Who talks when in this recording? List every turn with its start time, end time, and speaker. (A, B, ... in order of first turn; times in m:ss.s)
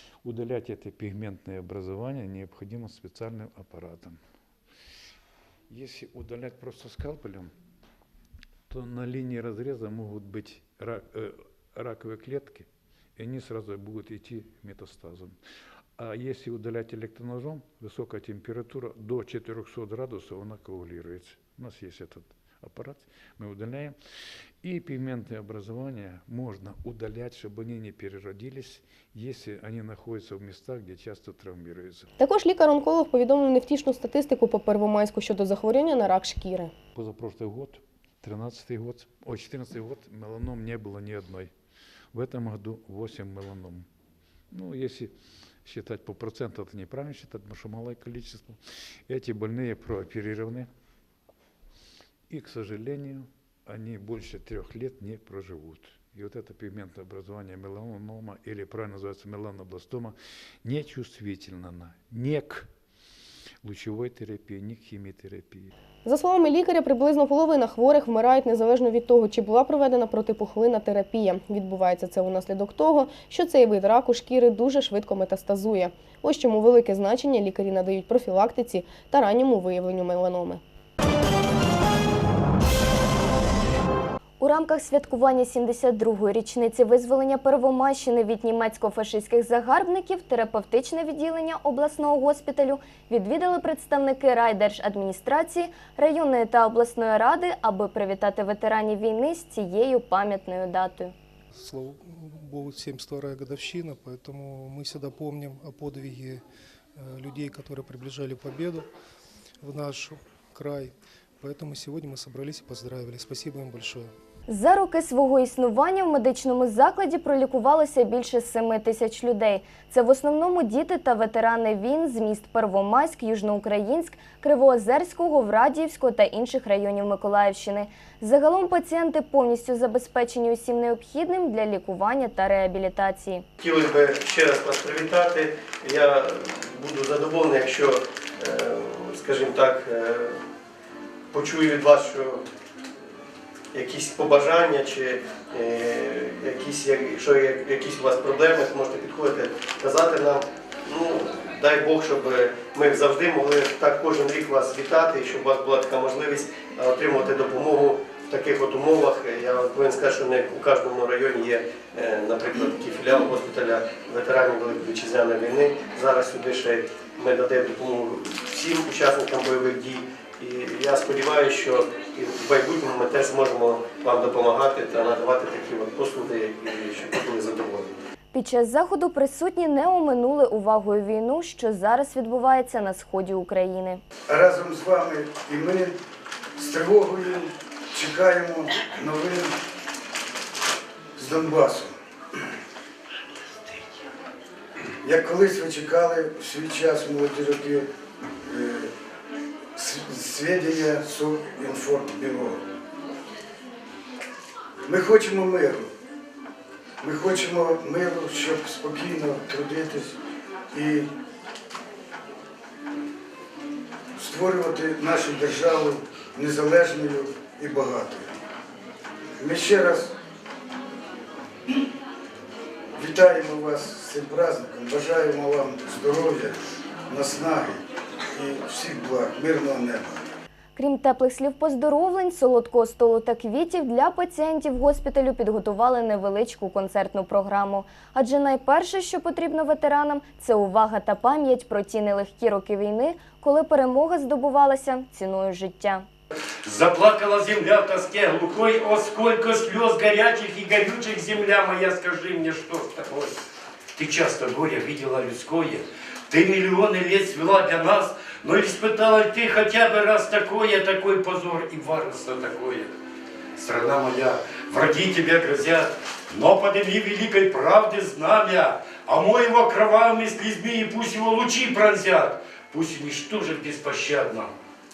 0:00.2-0:04.2 A
0:05.7-0:07.5 A
0:08.7-0:15.4 A
0:16.0-0:24.0 A
0:24.6-0:32.1 A
0:32.2-0:36.7 B
0:37.0-0:41.5 A
0:42.1-0:43.9 A
0:44.5-0:45.1 A
0:45.6-0:50.7 A
0:52.3-1:02.7 A
1:03.6-1:05.7 A
1:06.0-1:20.6 B
1:24.4-1:41.1 C
1:41.5-1:46.4 D
1:47.0-1:48.9 D
1:49.6-1:54.1 D
1:54.5-2:13.4 C
2:13.6-2:20.4 E
2:21.3-2:22.4 E
2:23.7-2:58.0 E
2:58.3-3:04.0 C
3:04.3-3:05.9 F
3:06.6-3:09.5 F
3:11.2-3:11.9 F
3:15.0-3:17.9 F
3:18.4-3:18.9 F
3:19.8-3:22.6 F
3:24.9-3:25.9 F
3:27.0-3:30.2 F
3:30.7-3:31.1 F
3:34.2-3:38.3 F
3:39.4-3:40.1 F
3:43.0-3:47.8 F
3:48.3-3:50.2 F
3:50.8-4:06.1 C
4:06.6-4:13.4 G
4:14.0-4:22.9 G
4:23.6-4:34.5 G